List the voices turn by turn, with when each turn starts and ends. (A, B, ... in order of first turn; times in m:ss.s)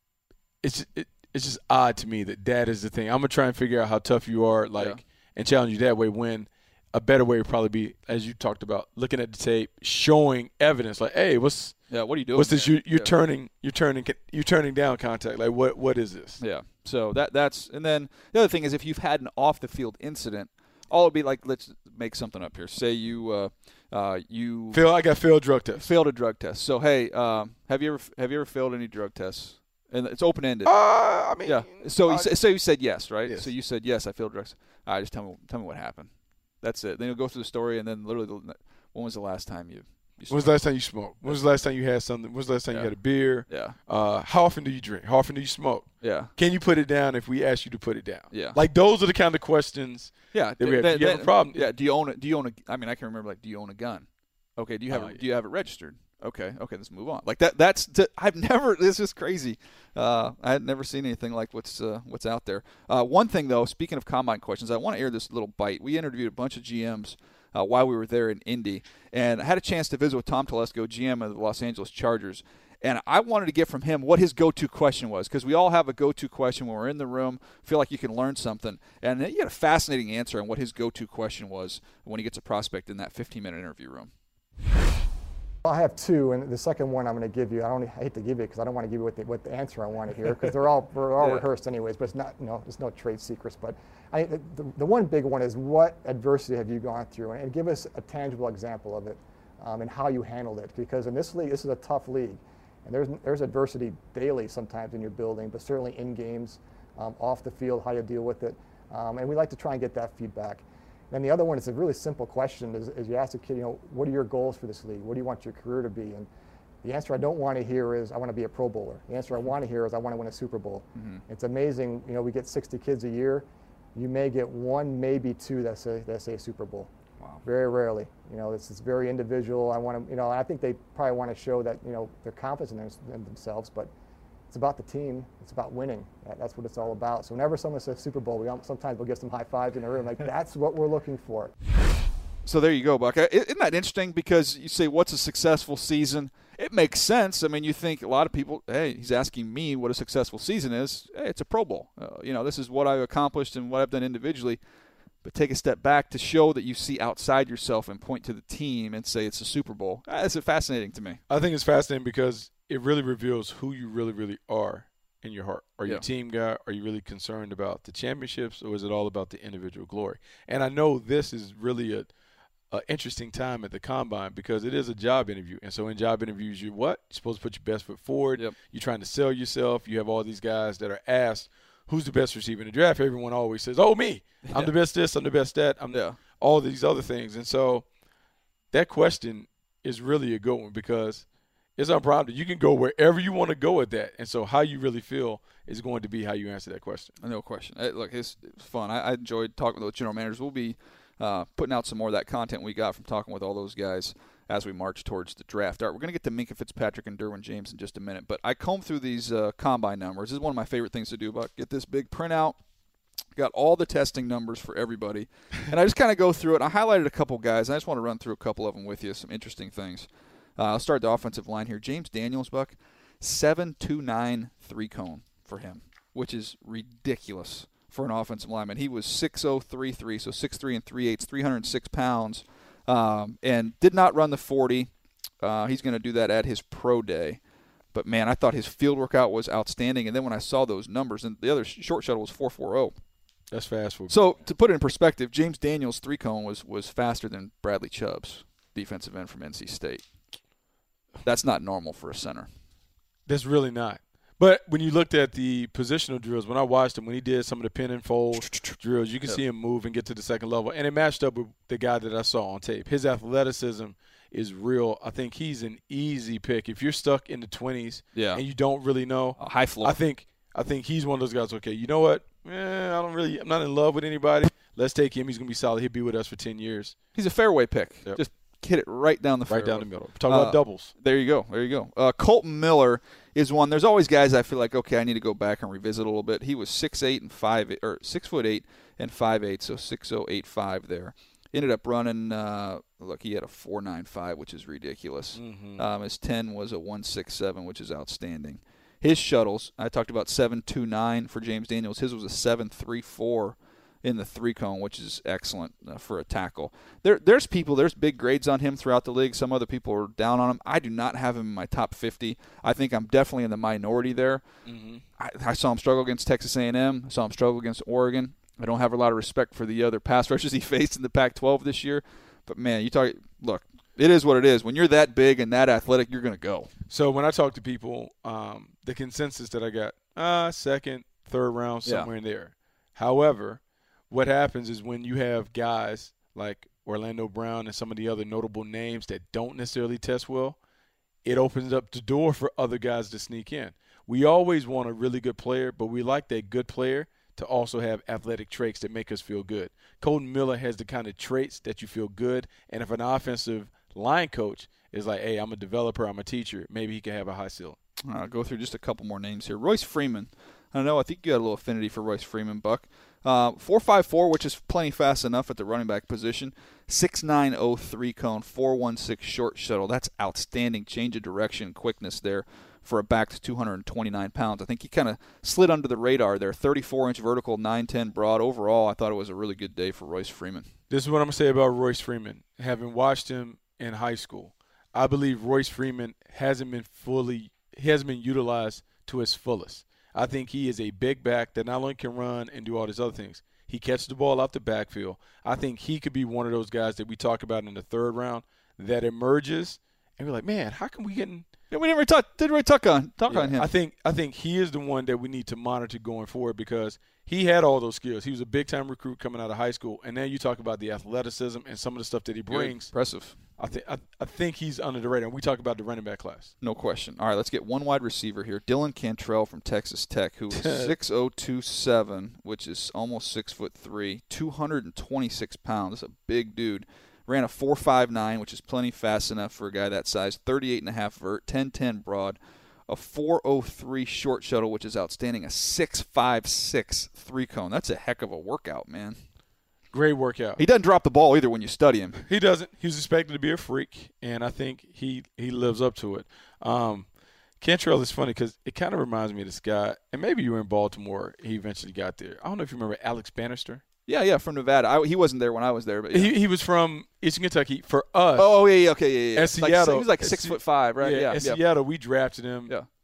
0:00.6-0:16.4 A
0:04.7-0:05.0 B
0:11.9-0:13.1 B
0:16.4-0:24.8 B
0:24.7-0:25.9 A
0:25.8-0:41.4 B
0:30.6-0:33.5 A
0:40.3-0:51.7 A
0:42.7-0:43.8 B
0:46.0-0:46.3 B
0:48.3-0:48.6 B
0:50.3-1:24.1 B
0:54.9-0:55.2 A
1:25.6-1:56.3 C
1:56.8-2:06.9 C
2:00.9-2:01.2 B
2:07.4-2:13.9 C
2:14.5-2:21.5 C
2:22.4-2:34.6 B
2:35.2-2:41.2 B
2:41.3-2:52.1 A
2:52.7-3:07.8 A
3:04.4-3:04.7 B
3:05.9-3:06.2 B
3:08.7-3:11.2 A
3:11.8-3:17.1 A
3:17.2-3:32.6 B
3:33.4-3:54.9 B
3:55.4-3:57.4 B
3:57.9-4:02.9 B
4:03.5-4:04.1 A
4:04.1-4:10.0 B
4:11.2-4:12.5 B
4:13.3-4:37.0 A
4:18.4-4:19.4 B
4:28.1-4:28.4 B
4:29.4-4:30.0 B
4:37.1-5:14.4 B
4:39.5-4:40.9 A
4:55.4-4:55.8 A
5:14.6-5:15.0 A
5:15.2-5:26.7 B
5:26.9-5:40.6 A
5:41.2-5:57.8 A
5:58.0-6:20.7 B
6:20.9-6:41.4 A
6:41.7-6:43.7 B
6:43.3-6:56.5 A
6:52.5-6:53.4 B
6:56.6-7:19.2 B
7:00.5-7:00.9 A
7:19.9-7:20.6 A
7:20.6-7:22.2 B
7:22.2-7:27.1 A
7:27.6-7:33.8 A
7:34.1-7:36.3 B
7:36.1-7:38.6 A
7:38.4-7:41.6 B
7:39.3-7:42.7 A